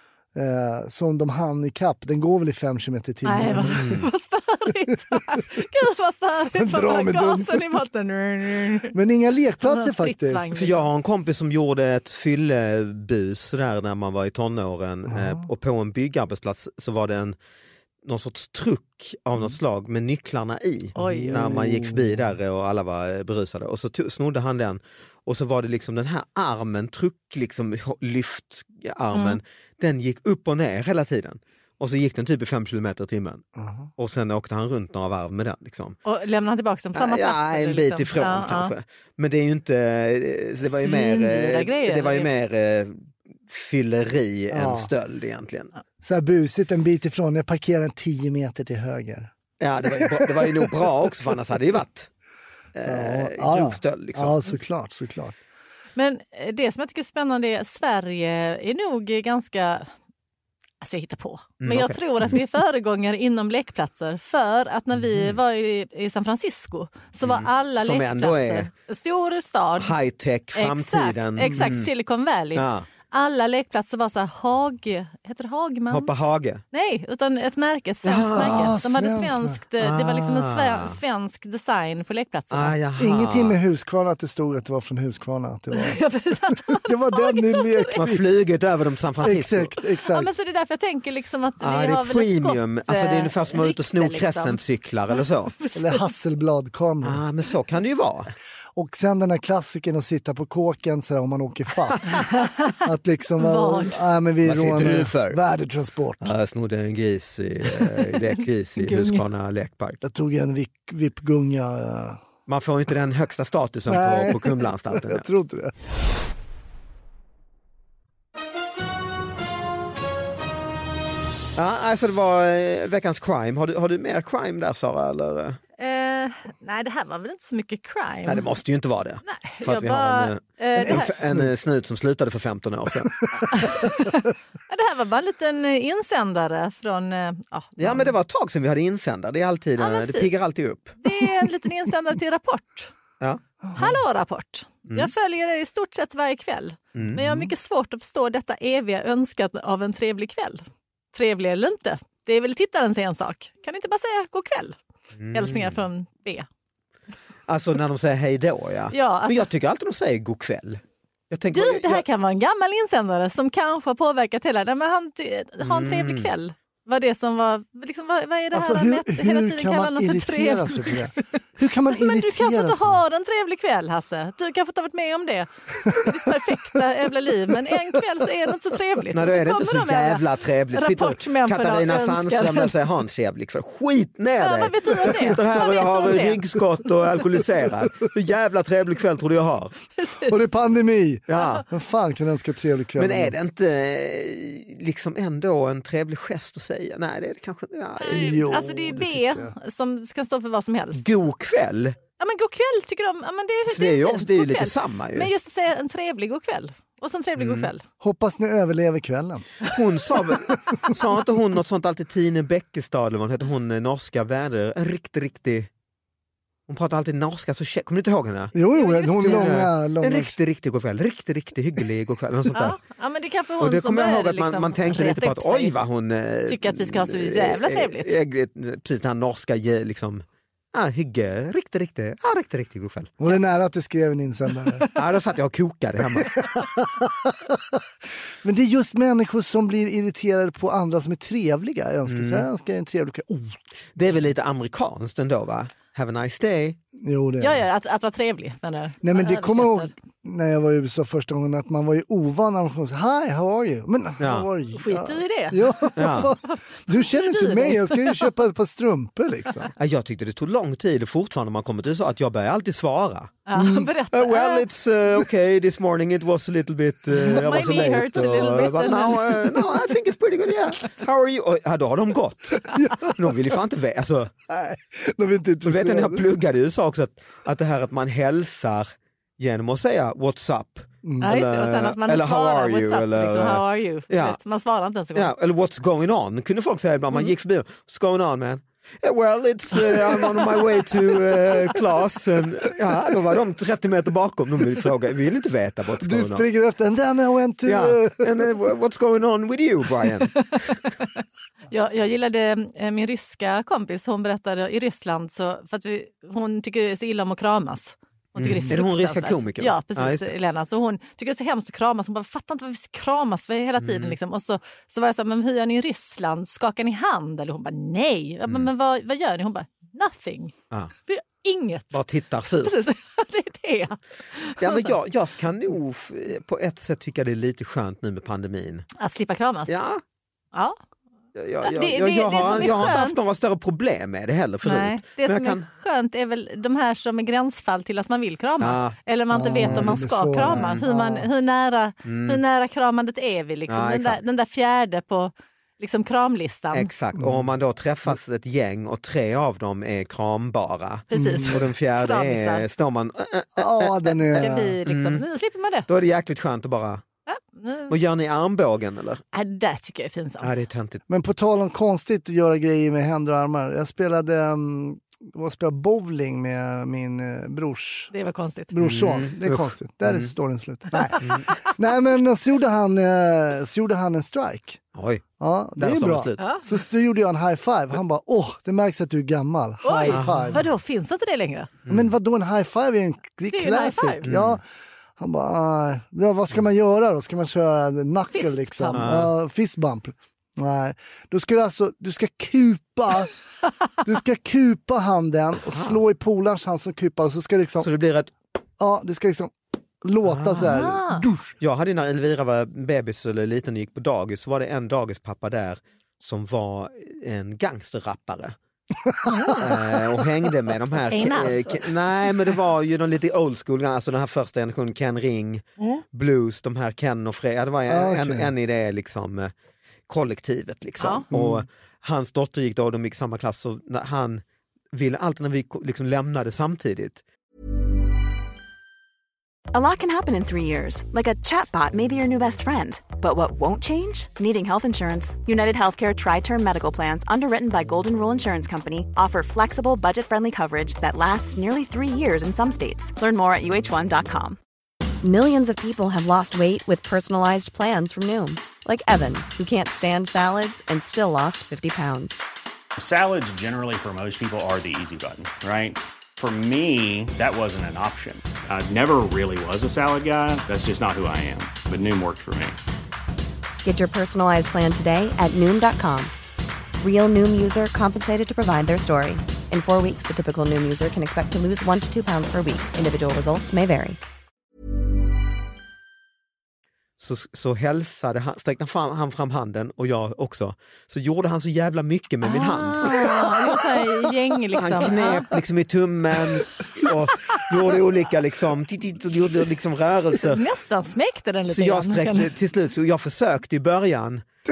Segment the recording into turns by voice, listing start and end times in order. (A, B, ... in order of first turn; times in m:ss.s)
0:00.3-0:04.0 A
0:03.2-0:08.9 B
0:03.8-0:04.0 C
0:06.5-0:07.8 A
0:08.8-0:10.5 A
0:09.6-0:10.9 B
0:10.5-0:17.4 C
0:15.1-0:15.4 A
0:18.0-0:33.4 C
0:21.0-0:21.6 B
0:21.0-0:22.3 A
0:29.1-0:29.4 B
0:33.6-0:33.9 A
0:34.0-0:36.0 C
0:36.0-0:38.7 B
0:36.9-0:45.7 C
0:40.6-0:42.3 B
0:44.5-0:44.9 A
0:46.0-0:49.3 A
0:49.6-0:52.1 C
0:49.8-0:51.3 A
0:52.7-0:54.4 C
0:52.8-0:55.4 A
0:56.0-0:59.9 B
1:00.8-1:09.9 B
1:01.6-1:02.3 C
1:05.0-1:05.4 C
1:07.2-1:08.7 C
1:09.8-1:11.9 C
1:10.5-1:16.1 B
1:11.4-1:11.6 A
1:12.5-1:12.9 C
1:15.9-1:16.6 C
1:16.7-1:22.8 B
1:18.0-1:18.7 C
1:18.3-1:19.6 A
1:19.8-1:21.0 C
1:22.5-1:23.6 C
1:23.0-1:28.2 A
1:25.7-1:28.0 B
1:28.0-1:29.7 C
1:29.2-1:30.3 A
1:30.0-1:34.6 B
1:31.6-1:35.5 C
1:35.6-1:35.9 B
1:35.7-1:37.2 A
1:37.0-1:38.3 C
1:38.8-1:42.3 A
1:42.2-1:42.7 B
1:42.8-1:46.3 A
1:43.4-1:44.0 B
1:44.4-1:45.4 C
1:46.2-1:50.0 C
1:48.8-1:49.2 B
1:50.0-1:52.2 A
1:52.5-1:55.3 C
1:53.9-1:55.7 A
2:01.6-2:05.6 C
2:05.8-2:08.4 B
2:08.2-2:13.2 C
2:09.2-2:11.2 B
2:10.8-2:11.5 A
2:13.4-2:18.1 B
2:17.8-2:21.0 C
2:19.8-2:20.3 B
2:21.0-2:22.9 B
2:23.6-2:23.9 A
2:23.8-2:34.8 B
2:26.9-2:27.2 C
2:27.2-2:27.5 A
2:35.2-2:35.8 C
2:35.3-2:36.4 B
2:37.5-2:42.0 C
2:38.9-2:39.4 B
2:41.5-2:51.0 B
2:45.6-2:46.3 C
2:48.5-2:53.0 A
2:51.9-3:02.8 B
2:55.9-2:56.5 A
2:59.1-3:09.8 C
3:04.4-3:06.4 B
3:10.0-3:10.3 B
3:10.2-3:13.4 A
3:11.3-3:11.6 C
3:13.0-3:18.7 C
3:18.0-3:21.0 B
3:18.1-3:19.5 A
3:20.9-3:22.0 C
3:22.2-3:27.8 B
3:23.7-3:25.3 C
3:27.4-3:27.7 C
3:28.0-3:29.5 A
3:29.6-3:35.7 C
3:36.7-3:38.6 C
3:38.5-3:40.4 A
3:38.7-3:39.5 B
3:39.2-3:42.8 C
3:42.5-3:45.7 B
3:43.6-3:53.1 C
3:46.5-3:48.1 B
3:53.2-3:54.8 A
3:54.9-3:56.6 C
3:56.2-4:03.6 A
4:02.0-4:02.4 C
4:04.0-4:06.8 C
4:07.0-4:07.6 A
4:07.4-4:09.9 B
4:09.0-4:19.7 A
4:14.2-4:14.5 C
4:14.7-4:18.3 B
4:16.0-4:16.3 C
4:19.8-4:23.4 C
4:23.5-4:24.6 B
4:23.5-4:23.9 A
4:24.1-4:34.3 C
4:27.2-4:29.7 B
4:32.7-4:33.3 A
4:34.5-4:36.2 A
4:35.6-4:44.4 C
4:41.0-4:41.3 A
4:41.2-4:45.3 B
4:45.1-4:56.4 C
4:56.0-4:58.4 A
4:57.6-5:00.7 C
5:01.0-5:20.5 B
5:08.4-5:10.3 C
5:13.8-5:14.2 C
5:21.1-5:22.0 B
5:21.9-5:22.8 C
5:22.6-5:25.0 B
5:24.6-5:28.9 C
5:29.0-5:29.8 B
5:29.7-5:30.0 C
5:31.4-5:35.6 C
5:31.6-5:33.2 B
5:34.6-5:46.9 B
5:38.6-5:39.0 C
5:39.3-5:41.3 A
5:39.6-5:40.8 C
5:42.0-5:42.4 C
5:43.7-5:44.2 C
5:46.7-5:55.2 C
5:47.1-5:47.5 A
5:51.1-5:52.6 B
5:51.1-5:51.6 A
5:53.6-5:54.8 A
5:54.3-5:55.9 B
5:55.9-5:57.0 C
5:57.3-5:57.9 B
5:57.9-5:59.2 C
5:59.3-6:00.5 B
6:00.4-6:01.0 C
6:01.1-6:08.1 A
6:08.1-6:08.7 B
6:08.7-6:14.8 A
6:08.8-6:10.3 C
6:11.0-6:11.6 B
6:14.9-6:15.2 C
6:15.4-6:20.6 A
6:15.8-6:16.5 C
6:16.4-6:16.6 B
6:19.8-6:21.7 B
6:20.1-6:20.6 C
6:21.9-6:22.1 C
6:21.9-6:24.6 A
6:23.5-6:24.3 B
6:24.3-6:24.6 C
6:25.2-6:33.3 A
6:28.3-6:29.0 B
6:28.9-6:29.3 C
6:34.0-6:37.9 A
6:35.7-6:36.0 C
6:37.8-6:38.3 C
6:38.8-6:41.6 A
6:40.2-6:40.8 C
6:40.7-6:41.2 B
6:41.6-6:48.6 C
6:49.0-6:50.0 A
6:49.3-6:49.6 B
6:49.6-6:59.5 C
6:51.1-6:51.9 B
6:57.9-6:58.5 A
7:00.1-7:07.2 C
7:01.0-7:01.2 B
7:01.3-7:01.6 A
7:09.7-7:24.6 D
7:25.2-7:32.4 E
7:33.0-7:42.8 F
7:43.8-7:46.3 E
7:47.0-7:54.2 E
7:57.2-8:03.8 C
8:02.4-8:05.5 B
8:04.8-8:10.6 C
8:10.4-8:12.5 B
8:11.7-8:14.4 C